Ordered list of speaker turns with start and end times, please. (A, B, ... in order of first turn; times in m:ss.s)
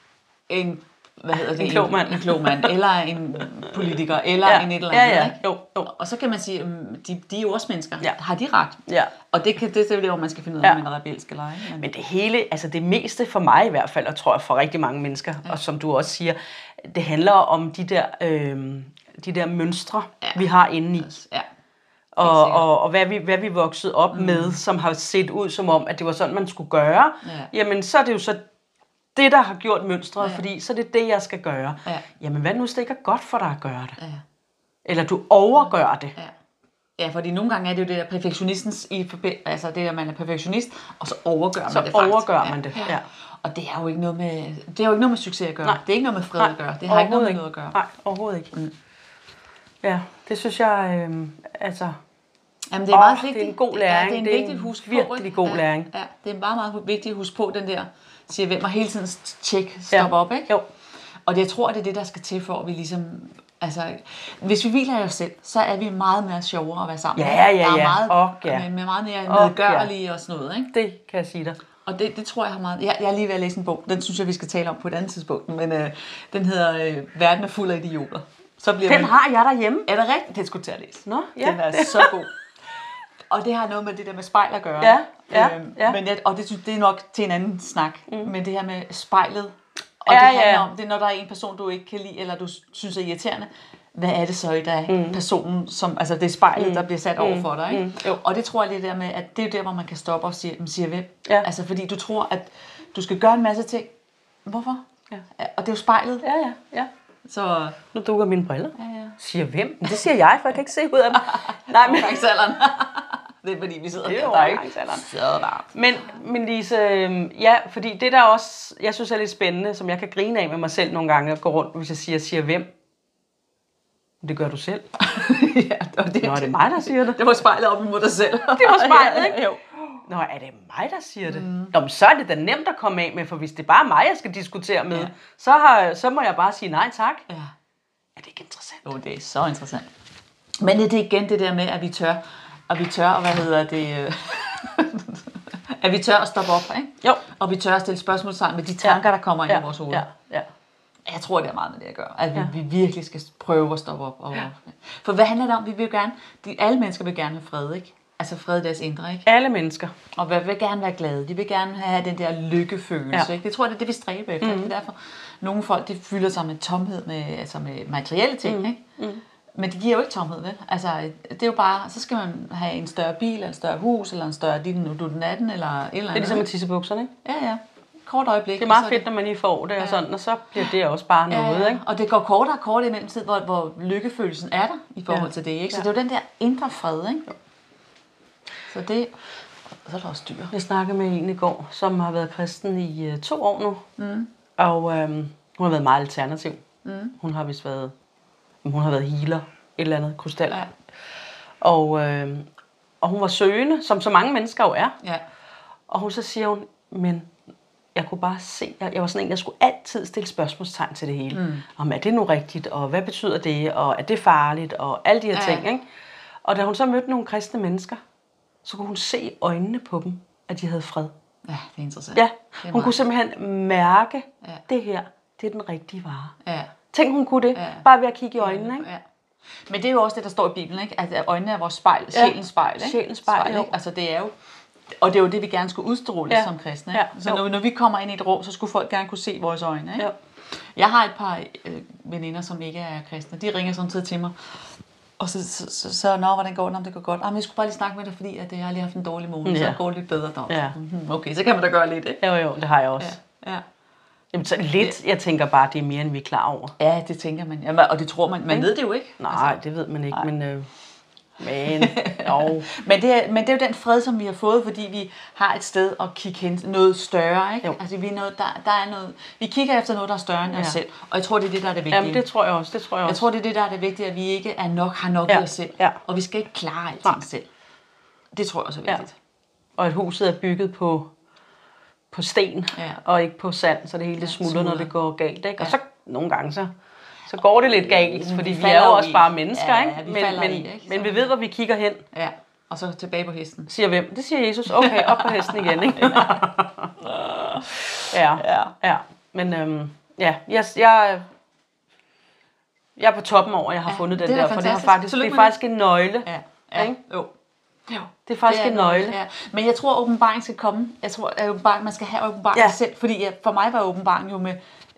0:00.5-0:11.9 A
0:01.4-0:02.7 B
0:04.4-0:05.9 B
0:08.9-0:09.1 B
0:11.8-0:21.1 B
0:20.2-0:21.4 A
0:22.1-0:28.4 B
0:22.2-0:22.6 A
0:24.1-0:24.6 A
0:27.2-0:27.5 A
0:29.1-0:34.0 B
0:34.0-0:34.2 A
0:34.8-0:36.1 B
0:37.0-0:47.8 A
0:41.7-0:43.0 B
0:46.4-0:48.5 B
0:49.8-0:52.0 B
0:52.7-1:00.5 A
0:52.9-0:55.9 B
0:59.9-1:00.6 B
1:01.2-1:10.7 A
1:07.2-1:08.6 B
1:09.3-1:09.9 B
1:10.7-1:11.6 B
1:11.8-1:19.2 A
1:18.8-1:19.9 B
1:19.8-1:22.3 A
1:21.1-1:22.1 B
1:23.3-1:43.9 A
1:24.8-1:26.0 B
1:30.1-1:30.7 B
1:34.9-1:35.2 B
1:36.5-1:38.2 B
1:44.4-1:46.3 A
1:46.2-1:46.9 B
1:47.2-1:47.8 A
1:47.9-1:52.3 B
1:48.8-1:49.2 A
1:51.3-1:55.7 A
1:54.0-1:55.1 B
1:55.7-2:02.7 B
2:04.2-2:04.8 B
2:05.0-2:10.0 A
2:06.0-2:07.3 B
2:08.4-2:09.5 B
2:10.1-2:17.2 B
2:11.3-2:11.7 A
2:18.2-2:18.9 B
2:18.8-2:19.9 A
2:20.6-2:30.1 A
2:28.8-2:30.5 B
2:31.0-2:39.3 A
2:39.2-2:39.9 B
2:40.2-2:48.8 A
2:44.4-2:44.7 B
2:48.4-2:49.2 B
2:49.5-2:56.5 A
2:56.1-2:57.1 B
2:57.2-2:59.1 A
2:58.6-3:01.8 B
3:01.3-3:07.4 A
3:05.1-3:05.8 B
3:08.7-3:09.1 A
3:09.8-3:10.5 A
3:10.5-3:13.8 B
3:14.0-3:14.3 A
3:14.6-3:16.6 B
3:16.8-3:17.1 A
3:17.2-3:17.9 B
3:18.6-3:20.7 B
3:21.6-3:22.5 B
3:23.0-3:24.9 B
3:25.9-3:27.3 B
3:27.9-3:35.8 B
3:31.3-3:31.6 A
3:35.3-3:35.6 A
3:36.4-3:38.0 B
3:38.6-3:41.1 B
3:41.4-3:43.0 A
3:42.1-3:46.3 B
3:46.4-3:46.7 A
3:46.9-3:48.9 B
3:47.5-3:47.8 A
3:48.4-3:49.0 A
3:49.7-3:54.3 A
3:52.1-3:53.7 B
3:55.0-4:00.1 A
3:56.3-3:57.4 B
4:00.8-4:04.3 A
4:05.2-4:12.3 A
4:09.4-4:09.8 B
4:10.5-4:10.7 B
4:12.2-4:13.2 B
4:13.0-4:13.6 A
4:14.3-4:16.7 B
4:16.8-4:19.6 A
4:18.5-4:20.7 B
4:21.4-4:22.7 B
4:21.6-4:32.2 A
4:30.5-4:30.8 B
4:31.9-4:33.2 B
4:33.0-4:37.5 A
4:35.3-4:36.0 B
4:38.3-4:39.1 A
4:39.8-4:41.1 B
4:42.1-4:46.7 B
4:42.7-4:43.0 A
4:44.2-4:44.9 A
4:47.3-4:52.0 B
4:47.6-4:51.3 A
4:52.1-4:53.7 A
4:53.7-5:01.3 B
4:54.7-4:56.4 A
4:57.0-4:57.6 A
4:58.3-4:58.7 A
5:03.0-5:07.0 B
5:03.8-5:05.6 A
5:06.2-5:07.3 A
5:07.9-5:14.6 A
5:08.3-5:09.2 B